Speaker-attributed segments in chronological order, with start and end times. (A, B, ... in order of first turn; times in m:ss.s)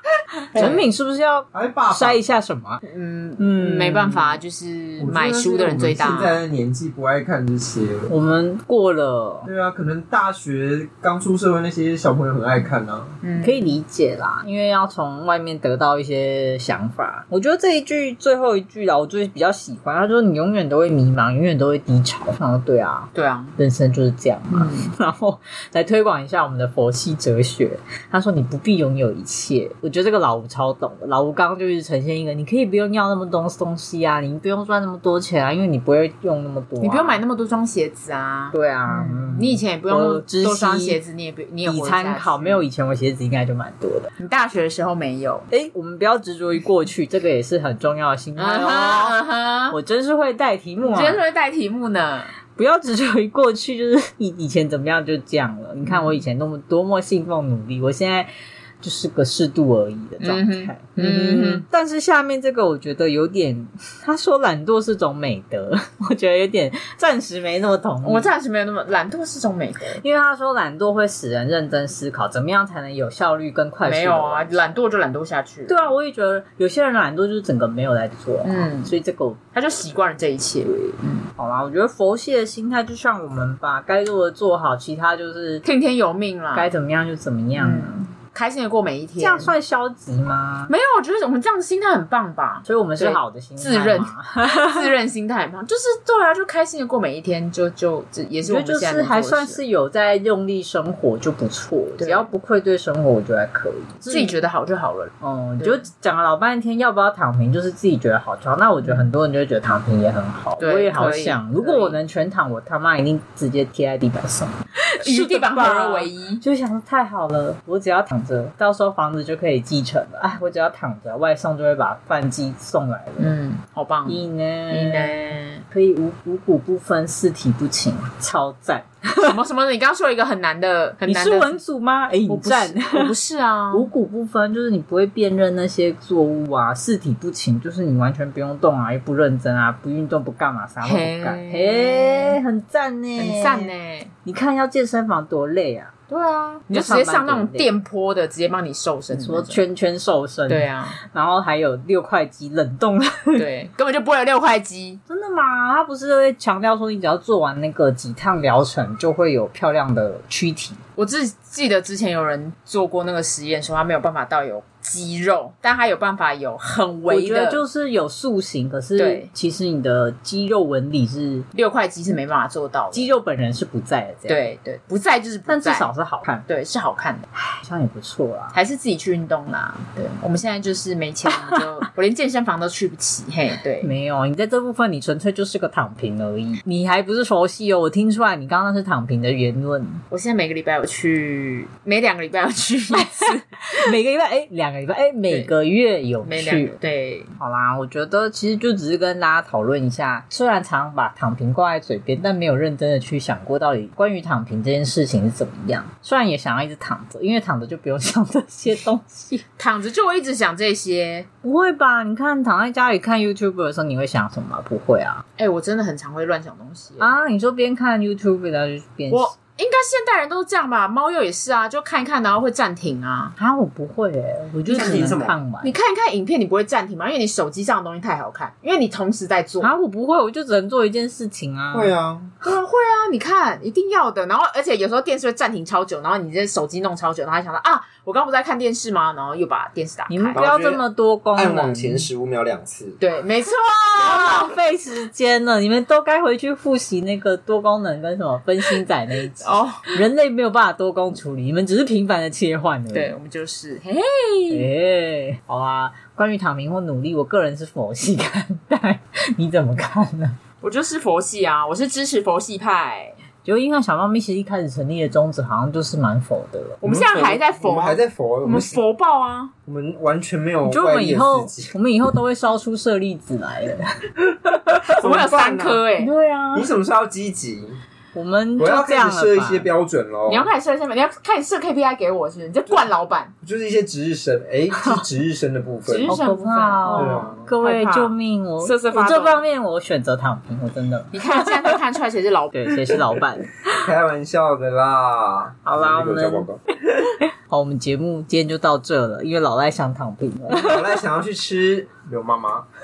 0:00.5-0:00.8 A
0:00.5-0:02.8 B
0:01.5-0:02.2 C
0:02.8-0:06.4 A
0:03.4-0:04.4 B
0:05.0-0:08.1 C
0:08.1-0:09.5 B
0:09.4-0:13.2 C
0:13.2-0:13.8 A
0:13.4-0:37.2 B
0:23.1-0:23.6 A
0:24.5-0:24.9 A
0:36.8-0:42.7 A
0:38.5-0:41.0 B
0:41.6-0:44.1 B
0:44.2-0:45.5 A
0:45.5-0:51.2 B
0:48.4-0:49.8 A
0:50.8-0:52.3 A
0:52.6-0:58.3 B
0:58.8-1:08.3 B
1:00.2-1:01.6 A
1:08.0-1:10.0 A
1:10.0-1:14.8 B
1:13.8-1:15.9 A
1:15.7-1:19.4 B
1:18.4-1:18.9 A
1:19.5-1:21.3 A
1:21.4-1:25.6 B
1:25.6-1:26.7 A
1:26.5-1:28.1 B
1:27.6-1:29.5 A
1:29.2-1:30.7 B
1:30.7-1:39.6 A
1:32.7-1:34.9 B
1:38.4-1:44.4 B
1:42.0-1:42.3 A
1:44.1-1:45.8 A
1:45.2-2:03.4 B
1:50.6-1:52.0 A
1:54.8-1:56.4 A
2:03.2-2:05.6 A
2:04.1-2:09.4 B
2:09.2-2:11.6 A
2:11.0-2:13.2 B
2:12.3-2:13.9 A
2:13.7-2:23.7 B
2:20.8-2:22.4 A
2:23.2-2:24.1 A
2:24.2-2:25.9 B
2:26.1-2:29.6 A
2:26.7-2:27.7 B
2:29.1-2:33.4 B
2:30.5-2:31.0 A
2:33.4-2:35.0 A
2:35.1-2:40.8 B
2:41.0-2:47.6 A
2:47.1-2:51.5 B
2:49.0-2:49.3 A
2:51.5-2:53.1 A
2:52.9-2:54.5 B
2:54.3-2:55.9 A
2:55.5-2:56.4 B
2:56.5-2:57.3 A
2:57.3-2:58.6 B
2:58.5-3:03.9 A
3:03.8-3:10.0 B
3:10.1-3:13.9 A
3:12.9-3:16.7 B
3:16.2-3:17.3 A
3:17.4-3:29.4 B
3:29.6-3:31.3 A
3:31.4-3:35.2 B
3:35.4-3:37.1 A
3:37.0-3:39.3 B
3:39.1-3:43.4 A
3:43.4-3:45.7 B
3:44.7-3:45.4 C
3:45.6-3:49.7 A
3:49.6-3:51.9 B
3:51.7-3:52.3 C
3:52.4-4:00.6 A
4:00.1-4:02.1 B
4:00.3-4:00.8 C
4:01.4-4:03.0 C
4:03.0-4:04.5 A
4:04.0-4:13.1 B
4:09.4-4:09.9 A
4:12.9-4:14.7 A
4:14.5-4:20.4 B
4:20.6-4:23.2 A
4:23.4-4:26.8 B
4:26.8-4:29.5 A
4:26.9-4:28.8 C
4:29.7-4:31.8 C
4:30.7-4:34.8 B
4:34.8-4:36.1 A
4:34.9-4:35.8 C
4:36.0-4:36.7 B
4:36.5-4:37.8 C
4:38.1-4:39.7 B
4:38.6-4:40.5 C
4:40.3-4:43.3 A
4:43.4-4:46.2 C
4:45.9-4:49.4 A
4:46.1-4:51.8 B
4:46.9-4:47.5 C
4:51.1-4:52.8 A
4:52.5-4:53.9 B
4:53.7-4:56.6 C
4:55.7-4:56.5 B
4:57.5-5:01.0 B
5:00.5-5:02.7 C